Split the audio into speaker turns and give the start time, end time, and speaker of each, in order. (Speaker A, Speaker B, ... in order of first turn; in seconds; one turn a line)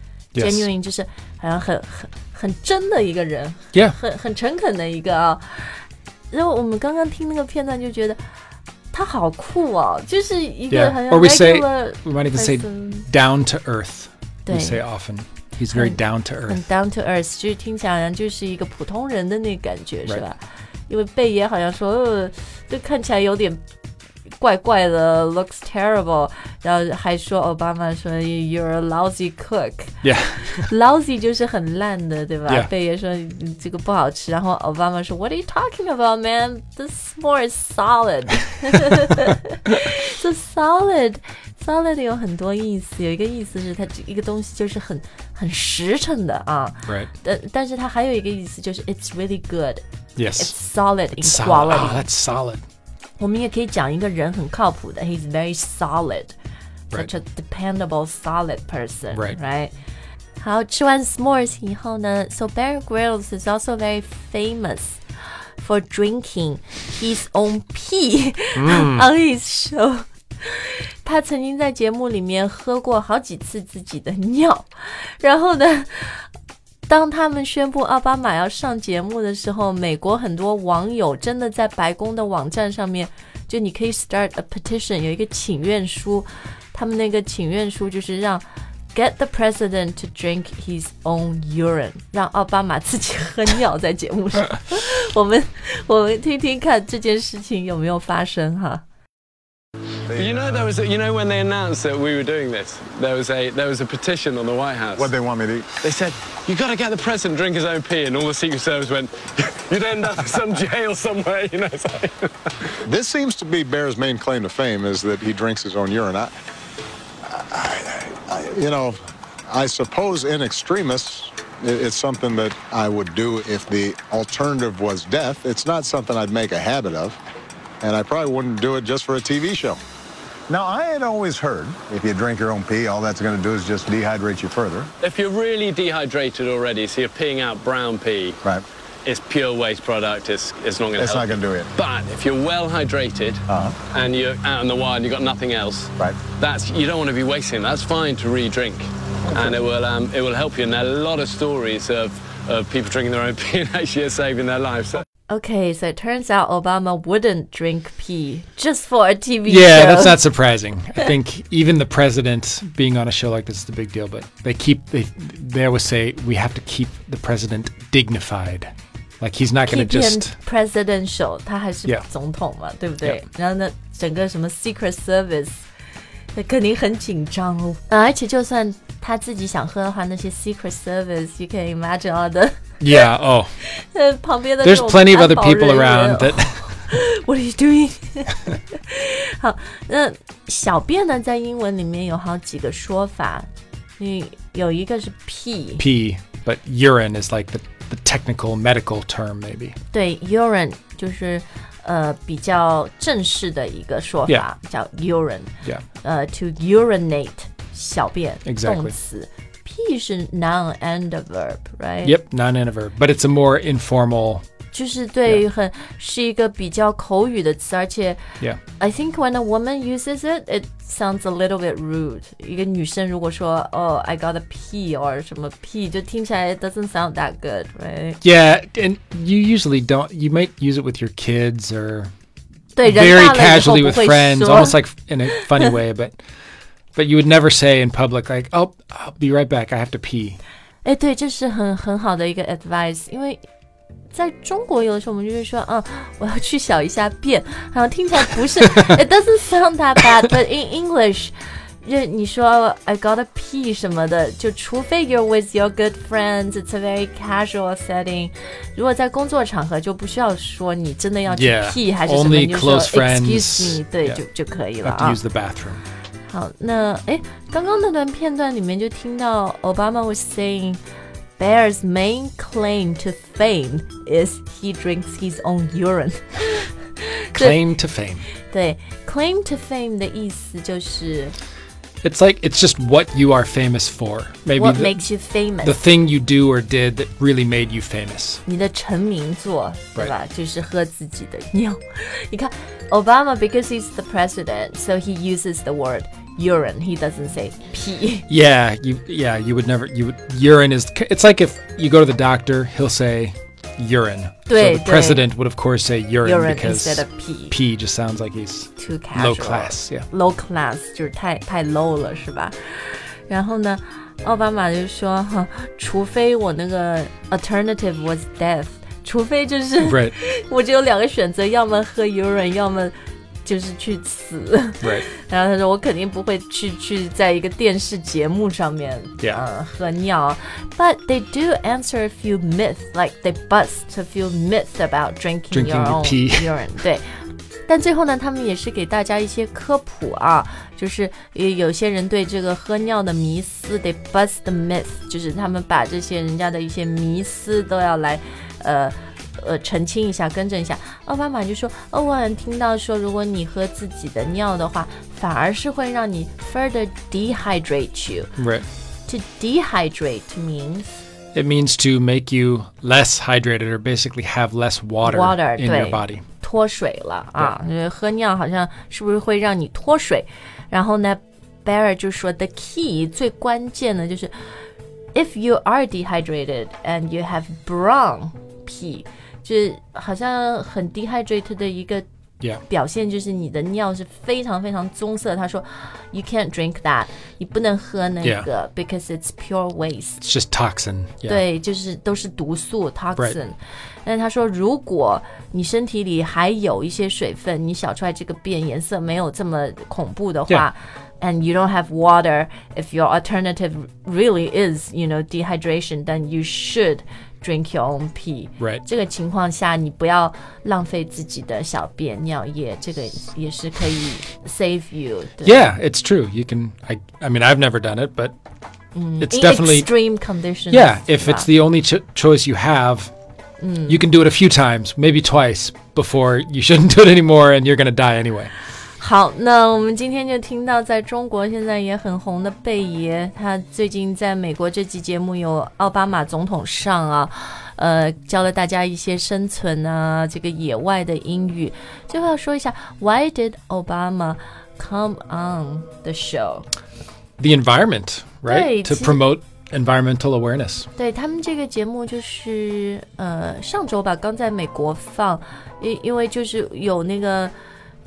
Speaker A: 0.3-0.7
Speaker B: 0.4-8.2
Speaker B: 8.9-13.1
Speaker A: 10.7-16.6
Speaker B: 14.5-14.8
Speaker B: 15.7-20.4
Speaker B: 20.9-23.6
Speaker B: 24.4-49.8
Speaker A: 30.0-30.7
Speaker A: 50.2-50.5
Speaker B: 50.4-52.1
Speaker A: 51.2-52.6
Speaker B: 53.2-56.4
Speaker B: 56.9-59.7
Speaker B: 60.4-65.0
Speaker B: 65.6-76.3
Speaker A: 68.5-69.1
Speaker B: 76.9-98.8
Speaker C: 100.1-100.7
Speaker D: 100.1-105.1
Speaker C: 105.0-105.7
Speaker D: 105.8-112.5
Speaker C: 112.8-116.3
Speaker C: 117.2-119.0
Speaker C: 119.5-127.2
Speaker C: 127.8-129.8
Speaker C: 130.5-134.9
Speaker D: 135.0-138.4
Speaker D: 139.1-155.1
Speaker C: 141.0-141.7
Speaker C: 143.5-143.8
Speaker B: 155.3-160.2
Speaker A: 159.5-170.3
Speaker B: 169.7-175.7
Speaker B: 176.3-183.1
Speaker A: 182.8-183.5
Speaker B: 183.6-195.8
Speaker A: 184.6-186.6
Speaker A: 195.8-199.8
Speaker B: 199.9-212.2
Speaker A: 208.4-208.9
Speaker A: 212.0-214.4
Speaker B: 214.7-228.2
Speaker A: 228.2-232.1
Speaker B: 232.8-234.8
Speaker A: 232.8-236.2
Speaker A: 237.0-240.4
Speaker B: 240.8-243.4
Speaker B: 244.1-265.2
Speaker A: 261.3-264.2
Speaker A: 264.8-265.8
Speaker B: 266.3-270.8
Speaker B: 271.4-277.6
Speaker A: 277.3-278.3
Speaker B: 278.5-281.4
Speaker A: 282.0-285.0
Speaker B: 284.6-285.8
Speaker A: 285.6-288.4
Speaker B: 288.5-298.3
Speaker A: 298.3-310.1
Speaker B: 304.5-305.2
Speaker B: 306.2-307.6
Speaker B: 308.8-337.1
Speaker A: 319.8-320.1
Speaker A: 335.5-336.5
Speaker B: 337.7-358.3
Speaker A: 358.4-358.7
Speaker B: 359.1-361.0
Speaker A: 361.3-366.2
Speaker B: 365.0-374.5
Speaker B: 375.1-382.1
Speaker B: 382.7-390.2
Speaker A: 388.2-388.5
Speaker A: 390.2-391.4
Speaker B: 391.3-415.7
Speaker A: 415.4-418.4
Speaker B: 418.9-421.5
Speaker A: 419.2-419.9
Speaker A: 420.7-423.1
Speaker B: 423.6-424.0
Speaker A: 423.9-428.5
Speaker B: 429.0-446.7
Speaker A: 447.4-450.9
Speaker B: 448.5-449.2
Speaker B: 451.0-457.5